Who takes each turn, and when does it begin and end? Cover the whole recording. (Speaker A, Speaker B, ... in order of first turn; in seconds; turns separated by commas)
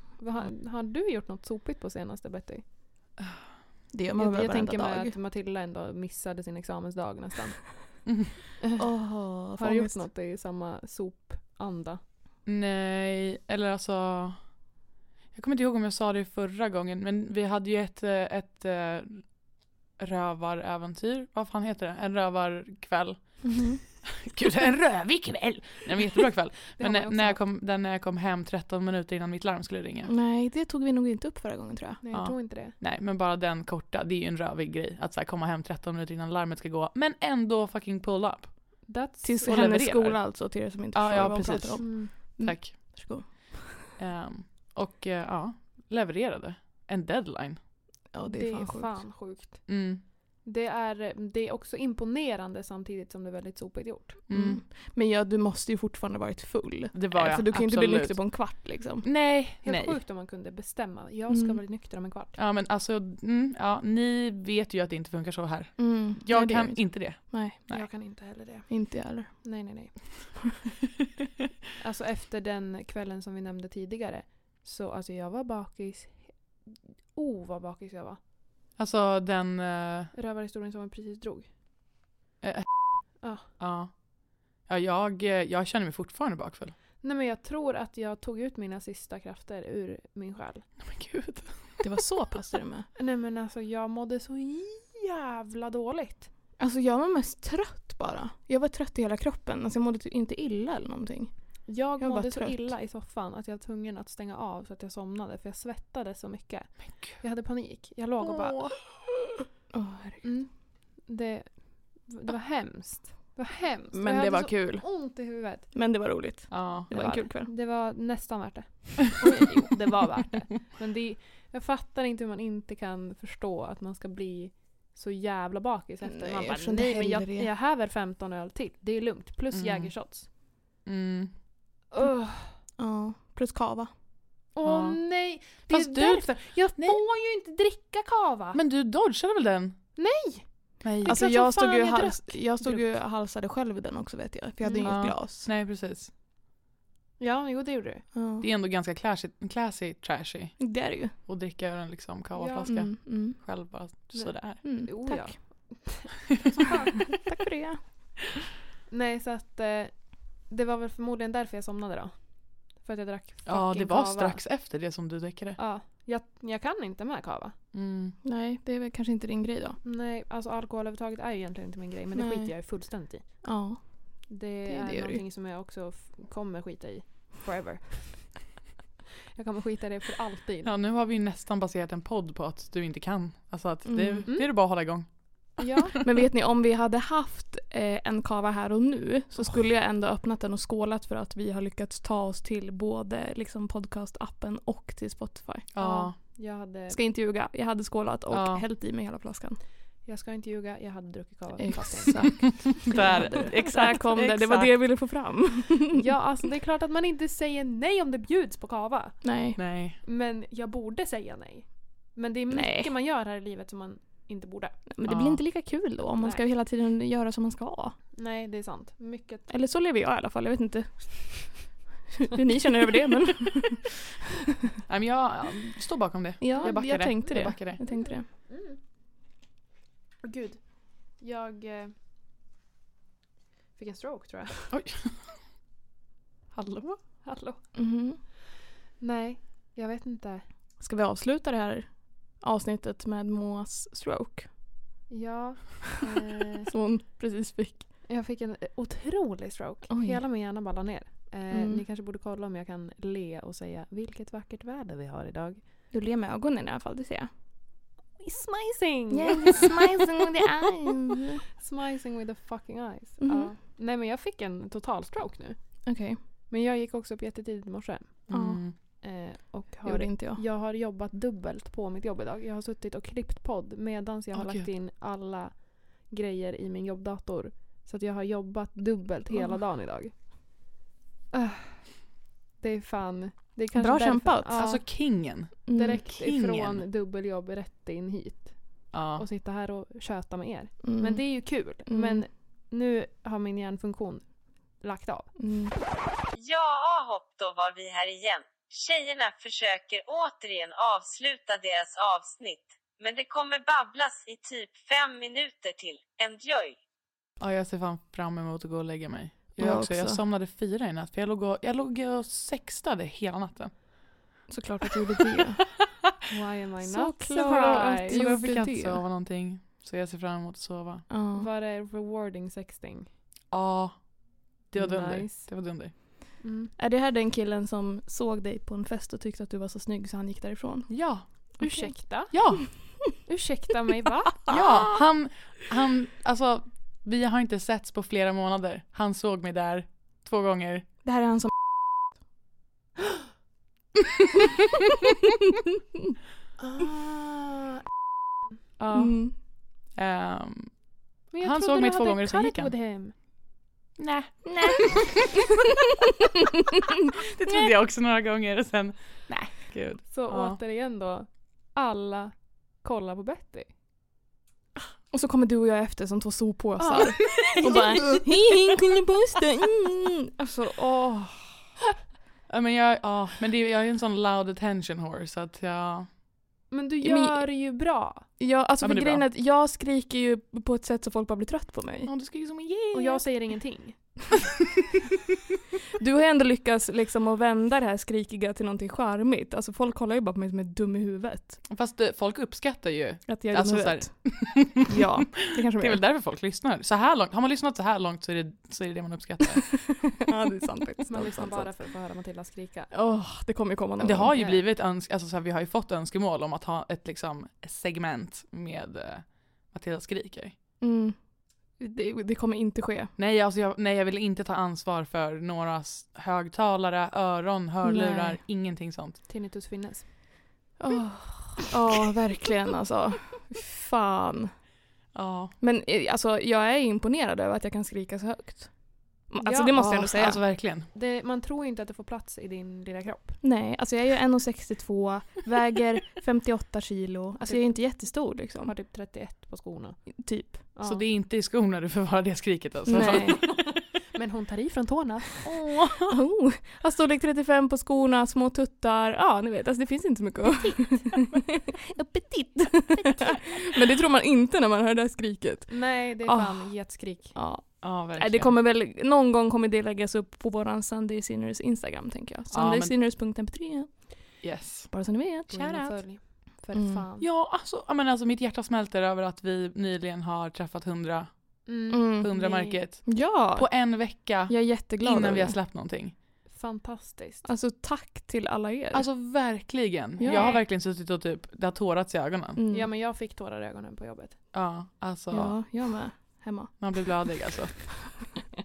Speaker A: 0.2-2.6, Speaker B: 3.9-5.2, Speaker A: 4.2-8.1, Speaker C: 8.1-8.3, Speaker A: 8.6-8.9, Speaker B: 8.8-10.0, Speaker A: 9.6-12.0, Speaker C: 12.4-14.4, Speaker C: 15.3-19.3, Speaker C: 19.9-23.6, Speaker B: 23.4-23.8, Speaker C: 24.1-30.1, Speaker A: 26.7-27.4, Speaker B: 30.1-32.0, Speaker A: 32.0-32.8, Speaker C: 32.1-38.9, Speaker A: 38.9-39.9, Speaker B: 39.2-43.9, Speaker C: 39.4-43.3, Speaker A: 41.1-42.1, Speaker C: 44.0-47.6, Speaker B: 48.1-49.0, Speaker A: 48.2-54.2, Speaker C: 49.7-50.0, Speaker C: 54.3-54.6, Speaker B: 54.3-59.1, Speaker C: 56.9-60.0, Speaker A: 59.6-62.4, Speaker B: 61.3-61.6, Speaker C: 62.4-67.8, Speaker B: 65.8-67.6, Speaker A: 67.7-70.3, Speaker B: 68.7-69.5, Speaker A: 71.8-78.2, Speaker C: 78.8-80.1, Speaker A: 80.1-81.5, Speaker C: 82.4-84.0, Speaker A: 83.2-83.5, Speaker C: 84.6-86.7, Speaker A: 87.0-90.7, Speaker C: 90.8-91.6, Speaker B: 91.8-92.9, Speaker A: 93.0-96.3, Speaker B: 96.6-101.3, Speaker A: 101.7-108.7, Speaker B: 102.0-102.7, Speaker C: 106.9-107.2, Speaker C: 108.2-108.8, Speaker B: 109.7-110.2, Speaker A: 110.2-115.7, Speaker B: 113.9-117.5, Speaker C: 116.5-116.9, Speaker A: 116.9-130.3, Speaker B: 126.1-127.5, Speaker C: 129.5-129.9, Speaker C: 130.8-131.3, Speaker A: 131.9-132.6, Speaker B: 132.8-133.9, Speaker A: 134.5-138.6, Speaker C: 134.6-135.0, Speaker C: 135.7-137.0, Speaker C: 138.5-139.8, Speaker A: 139.9-143.0, Speaker C: 140.8-141.2, Speaker B: 141.1-145.5, Speaker A: 144.6-144.9, Speaker C: 144.8-146.1, Speaker A: 147.2-148.1, Speaker B: 148.1-148.4, Speaker C: 148.4-154.6, Speaker B: 150.6-151.1, Speaker A: 152.3-152.9, Speaker B: 152.7-153.4, Speaker A: 154.1-157.2, Speaker B: 154.6-155.3, Speaker B: 157.2-157.8, Speaker A: 158.9-164.4, Speaker C: 163.4-165.6, Speaker A: 165.6-167.5, Speaker C: 167.7-168.2, Speaker B: 168.2-169.8, Speaker A: 169.8-173.6, Speaker B: 172.2-172.5, Speaker B: 173.4-175.2, Speaker A: 174.3-178.5, Speaker A: 179.3-180.7, Speaker C: 180.6-185.6, Speaker B: 183.9-184.3, Speaker A: 184.3-184.6, Speaker A: 185.6-186.0, Speaker B: 186.0-195.7, Speaker C: 195.7-196.1, Speaker A: 195.8-197.0, Speaker B: 196.9-199.6, Speaker C: 198.3-198.6, Speaker A: 200.1-203.6, Speaker B: 201.6-206.0, Speaker C: 202.9-204.8, Speaker A: 205.9-209.3, Speaker B: 209.2-209.6, Speaker C: 209.6-210.0, Speaker A: 210.0-214.8, Speaker B: 212.5-212.9, Speaker B: 214.9-217.9, Speaker C: 215.1-215.4, Speaker A: 216.2-216.4, Speaker A: 218.1-219.5, Speaker B: 219.5-223.8, Speaker C: 224.9-227.8, Speaker B: 226.4-228.2, Speaker A: 226.5-228.8, Speaker A: 230.2-231.9, Speaker A: 233.8-234.7, Speaker C: 234.7-235.4, Speaker C: 236.5-237.0, Speaker A: 237.2-237.6, Speaker B: 237.7-238.2, Speaker A: 239.0-240.4, Speaker B: 240.8-244.5, Speaker A: 245.1-246.7, Speaker B: 246.7-247.8, Speaker A: 248.1-255.6, Speaker B: 249.9-250.2, Speaker B: 251.5-251.8, Speaker B: 255.9-257.3, Speaker A: 258.2-260.2, Speaker B: 259.1-261.4, Speaker A: 261.6-265.8, Speaker B: 263.2-263.5, Speaker B: 265.9-266.2, Speaker A: 266.5-268.4, Speaker C: 268.3-268.8, Speaker B: 268.3-268.6, Speaker A: 269.0-280.1, Speaker B: 269.8-270.4, Speaker C: 274.3-274.6, Speaker B: 279.3-279.6, Speaker A: 281.3-282.0, Speaker A: 282.6-285.1, Speaker B: 283.7-284.5, Speaker C: 284.5-286.8, Speaker B: 285.7-286.0, Speaker A: 285.7-295.3, Speaker C: 288.9-289.2, Speaker B: 290.8-292.2, Speaker B: 295.4-295.7, Speaker D: 296.3-306.8, Speaker C: 307.4-313.8, Speaker B: 309.6-310.2, Speaker B: 314.5-315.6, Speaker A: 316.3-318.7, Speaker B: 316.8-319.0, Speaker C: 317.6-321.1, Speaker B: 321.1-321.5, Speaker A: 321.3-323.1, Speaker C: 323.5-325.9, Speaker A: 324.7-325.8, Speaker A: 326.4-326.7, Speaker B: 326.8-330.9, Speaker C: 330.9-331.2, Speaker B: 331.6-332.3, Speaker A: 331.6-332.7, Speaker C: 332.3-333.1, Speaker A: 333.2-334.5, Speaker C: 334.5-340.9, Speaker B: 334.5-334.8, Speaker B: 341.0-341.5, Speaker A: 346.6-347.8, Speaker C: 348.8-350.8, Speaker B: 348.9-349.3, Speaker A: 351.3-353.1, Speaker C: 351.4-352.7, Speaker C: 354.0-355.1, Speaker B: 354.4-355.1, Speaker C: 357.1-360.6, Speaker A: 360.1-363.7, Speaker B: 365.1-371.5, Speaker A: 366.8-368.2, Speaker C: 367.4-367.9, Speaker C: 372.5-376.1, Speaker A: 376.7-378.3, Speaker B: 377.0-377.4, Speaker B: 378.4-382.1, Speaker C: 378.8-379.2, Speaker C: 382.1-383.2, Speaker A: 382.9-384.3, Speaker B: 386.0-391.6, Speaker C: 391.7-400.1, Speaker B: 393.3-396.0, Speaker B: 399.9-401.7, Speaker A: 401.1-402.9, Speaker B: 402.9-404.4, Speaker C: 404.0-410.5, Speaker A: 404.3-404.6, Speaker B: 410.8-411.1, Speaker B: 411.8-413.1, Speaker C: 413.2-419.2, Speaker B: 417.8-418.4, Speaker A: 419.3-420.1, Speaker B: 420.8-424.5, Speaker C: 425.1-425.5, Speaker B: 425.6-430.4, Speaker A: 429.4-429.8, Speaker C: 429.7-430.9, Speaker A: 430.6-433.4, Speaker B: 433.4-438.7, Speaker A: 437.4-440.1, Speaker B: 440.2-440.6, Speaker A: 440.6-441.0, Speaker C: 440.8-443.4, Speaker B: 442.9-443.4, Speaker A: 442.9-445.5, Speaker C: 445.4-446.2, Speaker B: 446.1-465.9, Speaker A: 455.7-457.4, Speaker C: 457.8-458.5, Speaker C: 462.5-462.9, Speaker C: 464.4-464.9, Speaker C: 465.5-465.9, Speaker A: 465.5-467.3, Speaker B: 466.7-467.0, Speaker C: 467.2-471.3, Speaker A: 471.6-472.8, Speaker B: 471.9-472.3, Speaker C: 472.2-476.1, Speaker B: 472.9-475.5, Speaker A: 476.4-477.5, Speaker B: 477.4-479.1, Speaker C: 478.9-482.6, Speaker B: 480.2-480.5, Speaker A: 480.3-480.6, Speaker B: 482.6-482.9, Speaker A: 482.7-484.4, Speaker C: 484.5-485.6, Speaker B: 485.3-487.0, Speaker C: 486.8-487.8